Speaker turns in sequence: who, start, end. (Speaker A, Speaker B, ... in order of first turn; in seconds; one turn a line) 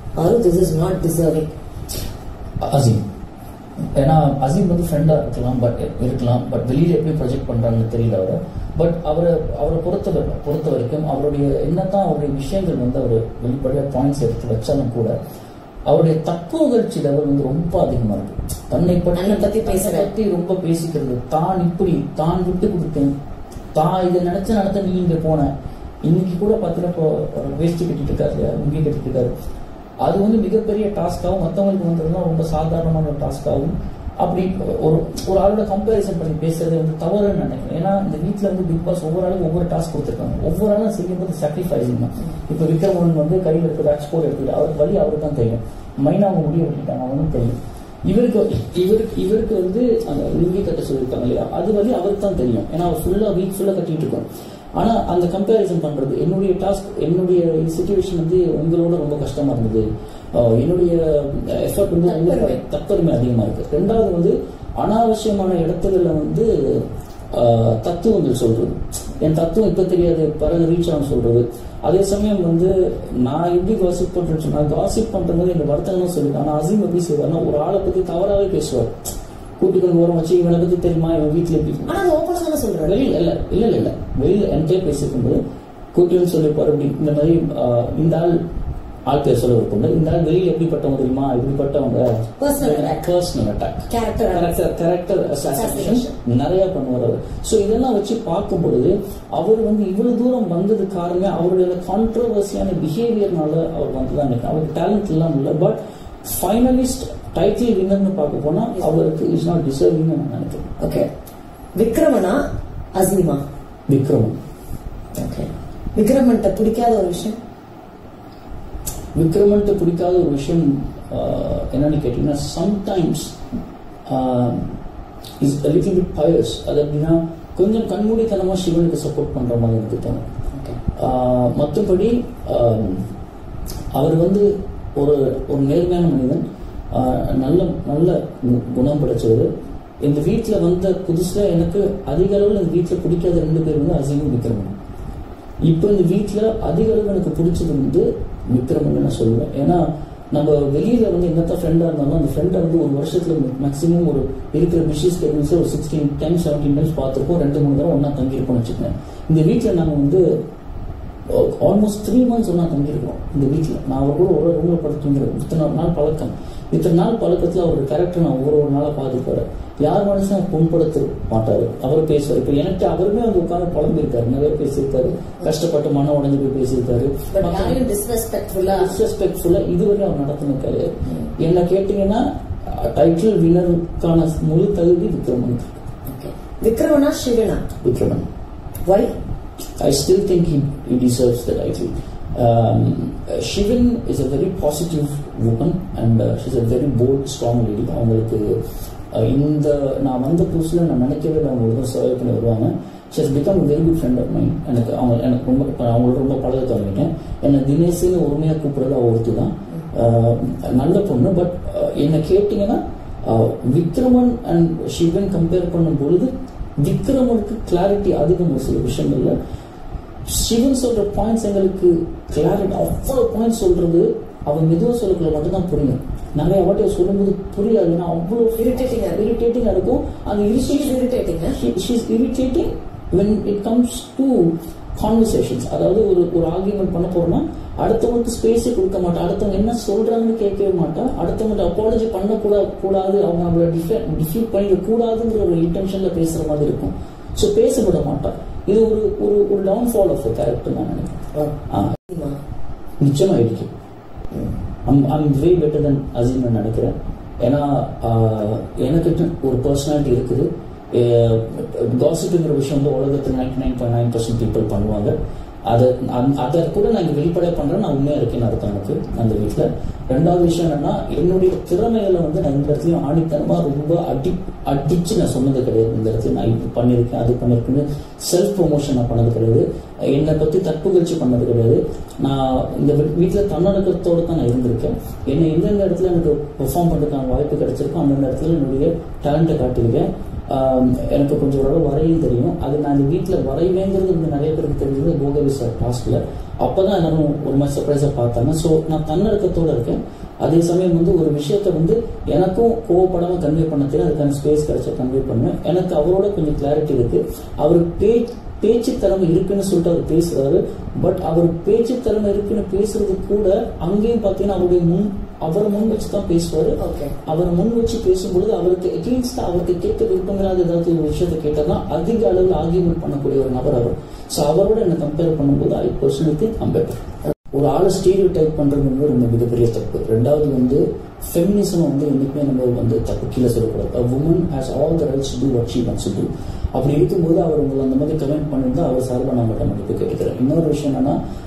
Speaker A: 0.2-1.5
Speaker B: 2.6-3.0
Speaker B: 3.9-15.2
Speaker B: 15.9-23.1
Speaker A: 19.1-20.1
Speaker B: 23.7-25.5
Speaker B: 26.0-29.3
Speaker B: 30.0-54.2
Speaker B: 54.8-82.0
Speaker A: 62.1-62.5
Speaker A: 81.9-83.1
Speaker B: 82.8-85.4
Speaker B: 85.9-88.4
Speaker B: 89.1-110.7
Speaker A: 92.4-93.0
Speaker A: 93.9-94.5
Speaker A: 95.5-96.1
Speaker A: 110.8-111.1
Speaker A: 111.8-112.4
Speaker A: 112.9-113.4
Speaker B: 113.9-114.3
Speaker A: 115.1-117.4
Speaker B: 119.2-123.3
Speaker B: 124.1-124.7
Speaker B: 125.4-130.3
Speaker B: 130.9-133.1
Speaker B: 133.9-139.5
Speaker B: 140.0-144.7
Speaker B: 145.6-160.2
Speaker B: 161.3-177.8
Speaker A: 177.3-178.9
Speaker B: 178.7-185.8
Speaker A: 186.1-187.6
Speaker B: 187.8-188.2
Speaker A: 188.8-189.1
Speaker B: 189.8-198.6
Speaker B: 199.1-219.3
Speaker B: 220.3-230.9
Speaker A: 228.6-229.2
Speaker A: 230.6-231.6
Speaker B: 231.5-251.9
Speaker A: 252.1-252.4
Speaker B: 253.0-253.7
Speaker B: 254.8-265.1
Speaker B: 265.7-341.2
Speaker A: 316.8-317.1